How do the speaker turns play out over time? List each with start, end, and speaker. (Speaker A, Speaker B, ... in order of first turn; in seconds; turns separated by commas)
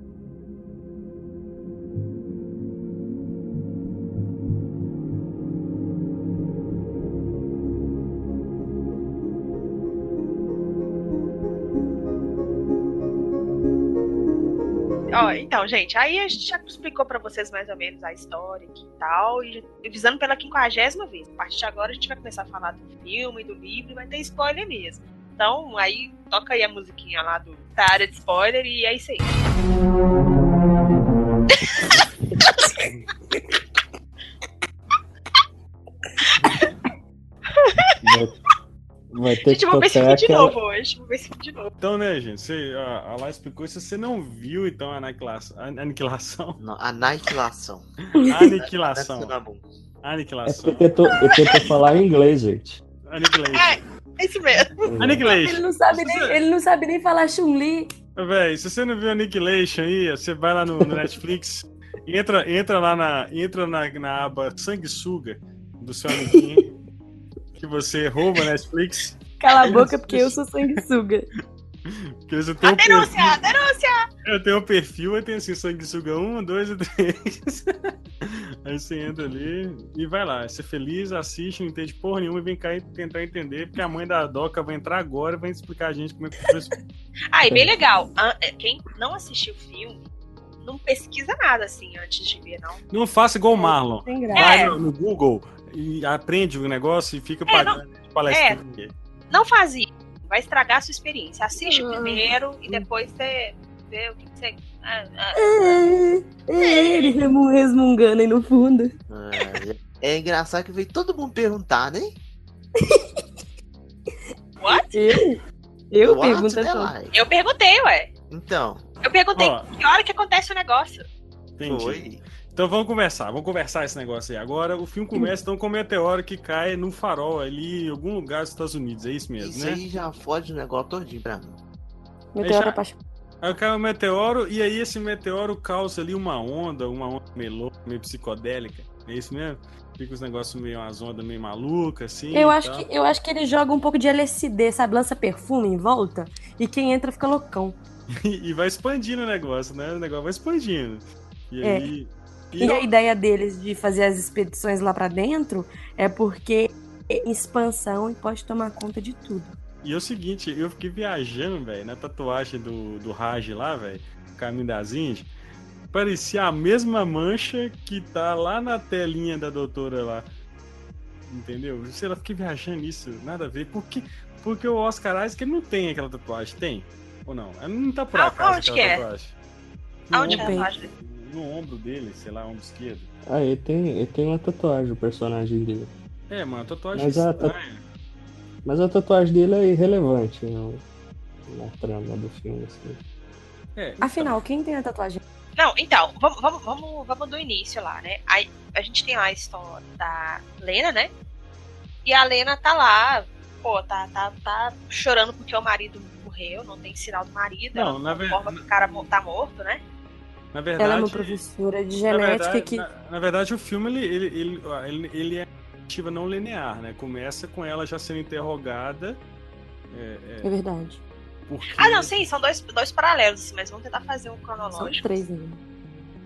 Speaker A: 15.1-29.3, Speaker B: 32.4-32.9, Speaker A: 36.2-36.7, Speaker A: 37.6-37.9, Speaker C: 38.0-38.4, Speaker C: 39.1-40.6, Speaker A: 39.5-41.7, Speaker D: 41.8-46.6, Speaker E: 46.6-47.9, Speaker B: 48.1-48.5, Speaker D: 48.2-49.3, Speaker E: 48.6-49.6, Speaker D: 50.0-50.9, Speaker C: 50.5-52.8, Speaker D: 53.1-53.8, Speaker A: 53.5-54.8, Speaker C: 54.8-55.2, Speaker D: 55.0-56.4, Speaker B: 55.2-57.9, Speaker D: 58.1-66.7, Speaker B: 66.1-66.7, Speaker D: 67.5-70.8, Speaker B: 69.4-71.3, Speaker D: 71.8-73.4, Speaker A: 72.6-74.0, Speaker D: 74.2-86.8, Speaker A: 87.3-90.0, Speaker C: 87.4-87.7, Speaker A: 90.6-92.8, Speaker D: 92.9-98.9, Speaker B: 93.5-94.7, Speaker A: 94.3-94.8, Speaker A: 97.5-98.6, Speaker A: 99.3-105.7, Speaker B: 101.6-102.8, Speaker B: 105.3-108.9, Speaker A: 106.6-107.2, Speaker E: 109.1-112.1, Speaker B: 112.8-113.2, Speaker A: 114.6-115.0, Speaker B: 114.9-115.4, Speaker B: 115.9-116.9, Speaker E: 116.0-117.1, Speaker A: 117.1-118.1, Speaker E: 118.3-118.8, Speaker A: 119.0-121.0, Speaker D: 119.3-119.7, Speaker D: 121.6-129.8, Speaker E: 121.7-122.2, Speaker E: 129.4-131.6, Speaker B: 132.3-133.0, Speaker D: 132.4-132.8, Speaker D: 133.4-142.9, Speaker B: 142.3-147.8, Speaker D: 148.2-152.9, Speaker B: 151.6-151.9, Speaker B: 152.6-159.6, Speaker D: 159.8-165.3, Speaker D: 165.9-170.3, Speaker D: 171.3-179.3, Speaker A: 178.1-179.0, Speaker A: 180.1-180.9, Speaker B: 180.1-180.7, Speaker D: 180.2-183.1, Speaker C: 183.3-185.9, Speaker D: 186.3-187.8, Speaker C: 186.9-187.5, Speaker C: 188.6-190.8, Speaker C: 191.5-193.0, Speaker D: 193.8-194.4, Speaker B: 194.0-195.2, Speaker A: 195.6-201.1, Speaker A: 202.0-209.8, Speaker D: 207.7-208.6, Speaker D: 210.5-211.4, Speaker B: 210.8-212.9, Speaker D: 212.1-219.2, Speaker D: 219.9-220.5, Speaker B: 220.4-221.0, Speaker D: 221.5-222.1, Speaker A: 221.8-225.2, Speaker B: 224.8-225.6